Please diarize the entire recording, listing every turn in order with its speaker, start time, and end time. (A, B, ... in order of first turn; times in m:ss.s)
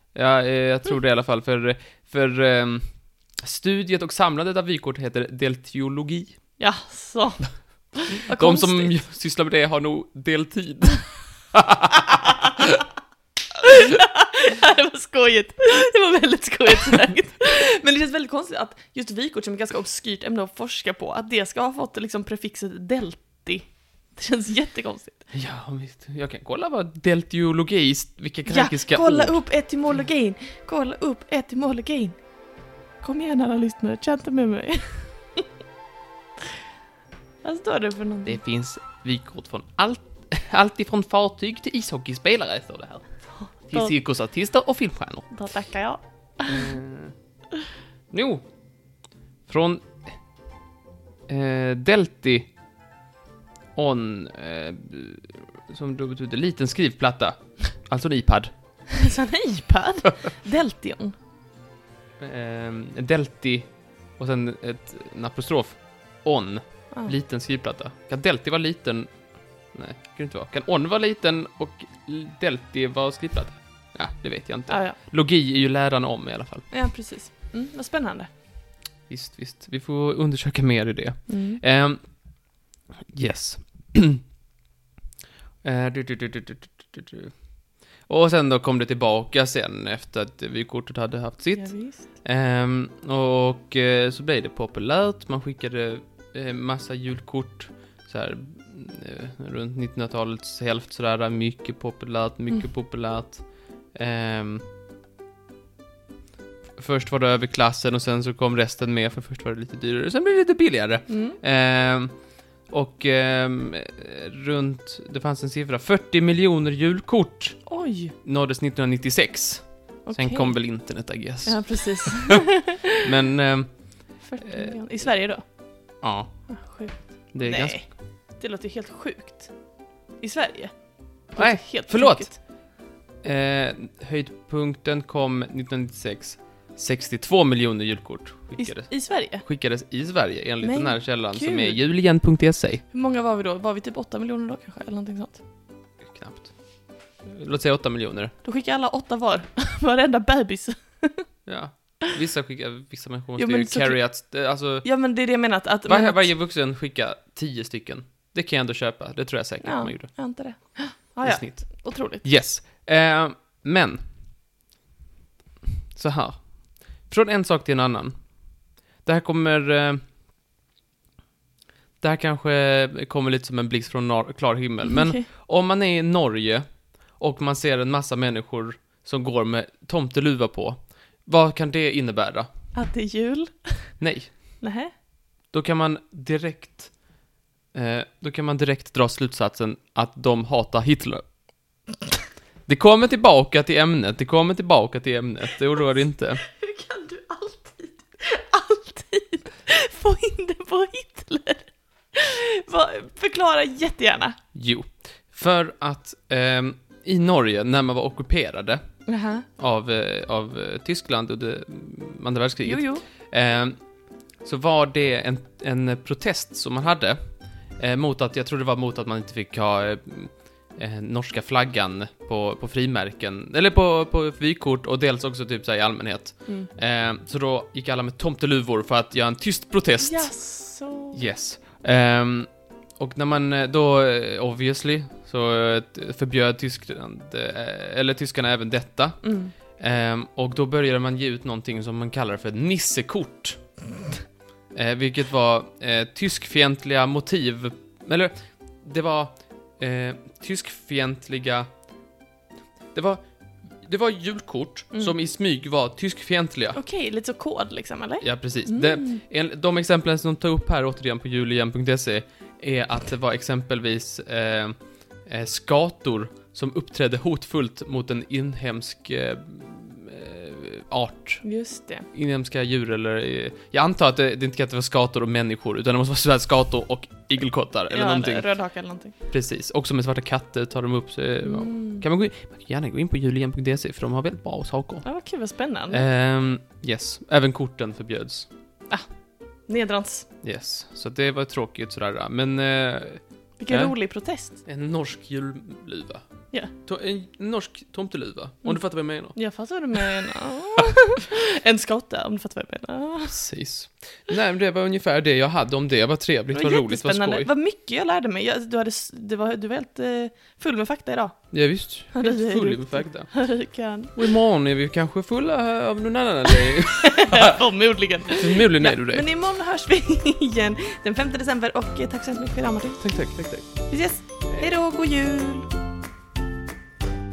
0:00.1-0:06.4 A
0:06.6-0:08.9 B
0:08.1-0:12.8 A
0:13.6-0:25.2 B
0:25.3-0:29.4 A
0:28.5-0:32.2 B
0:33.0-0:35.5 B
0:37.4-0:38.4 B
0:38.3-0:45.3 A
0:45.3-0:46.7 B
0:46.5-0:47.1 A
0:48.1-0:48.5 A
0:49.5-0:50.1 A
0:51.3-0:52.5 A
0:53.8-0:58.5 A
0:58.9-1:01.1 B
1:02.2-1:16.8 A
1:14.7-1:15.0 B
1:16.7-1:18.3 B
1:19.1-1:22.5 A
1:21.3-1:21.6 B
1:23.1-1:24.2 A
1:25.6-1:44.6 A
1:31.6-1:32.0 B
1:46.8-1:57.6 A
1:51.1-1:51.4 B
1:57.7-1:58.2 B
1:58.2-2:02.1 A
2:00.1-2:00.6 B
2:01.4-2:03.0 B
2:02.9-2:04.7 A
2:04.2-2:05.4 B
2:06.0-2:06.4 A
2:06.5-2:07.9 B
2:07.3-2:07.8 A
2:08.4-2:09.5 B
2:10.2-2:10.8 B
2:11.3-2:12.4 B
2:11.4-2:12.5 A
2:13.2-2:22.8 A
2:18.6-2:19.4 B
2:20.6-2:21.8 B
2:22.9-2:25.4 B
2:26.1-2:28.3 A
2:28.4-2:31.3 B
2:31.5-2:34.9 A
2:33.4-2:34.3 B
2:34.8-2:36.3 B
2:35.9-2:40.1 A
2:39.6-2:42.3 B
2:41.2-2:44.0 A
2:46.0-2:50.0 A
2:52.0-3:02.5 A
2:54.8-2:55.2 B
3:02.7-3:03.9 B
3:04.0-3:04.4 A
3:04.6-3:04.9 B
3:05.5-3:07.1 A
3:07.7-3:11.2 A
3:12.7-3:16.4 A
3:16.4-3:24.4 B
3:24.5-3:28.8 A
3:29.1-3:29.5 B
3:29.6-3:33.8 A
3:32.6-3:33.0 B
3:34.4-3:37.2 A
3:37.8-3:50.3 A
3:50.0-3:51.2 B
3:51.1-4:03.6 A
3:59.2-3:59.5 B
4:04.7-4:11.7 A
4:12.9-4:13.2 A
4:13.8-4:16.8 A
4:16.7-4:19.2 B
4:18.2-4:31.4 A
4:31.4-4:32.1 B
4:32.1-4:38.5 A
4:37.9-4:39.1 B
4:39.3-4:45.1 A
4:41.4-4:42.0 B
4:45.0-4:46.0 B
4:45.9-4:48.5 A
4:49.7-4:50.3 B
4:50.4-4:53.9 A
4:53.6-4:54.6 B
4:54.5-4:59.4 A
4:58.6-5:03.4 B
5:03.3-5:07.5 A
5:06.5-5:14.2 B
5:11.5-5:13.5 A
5:14.1-5:17.5 A
5:17.0-5:25.7 B
5:18.3-5:19.2 A
5:23.0-5:23.9 A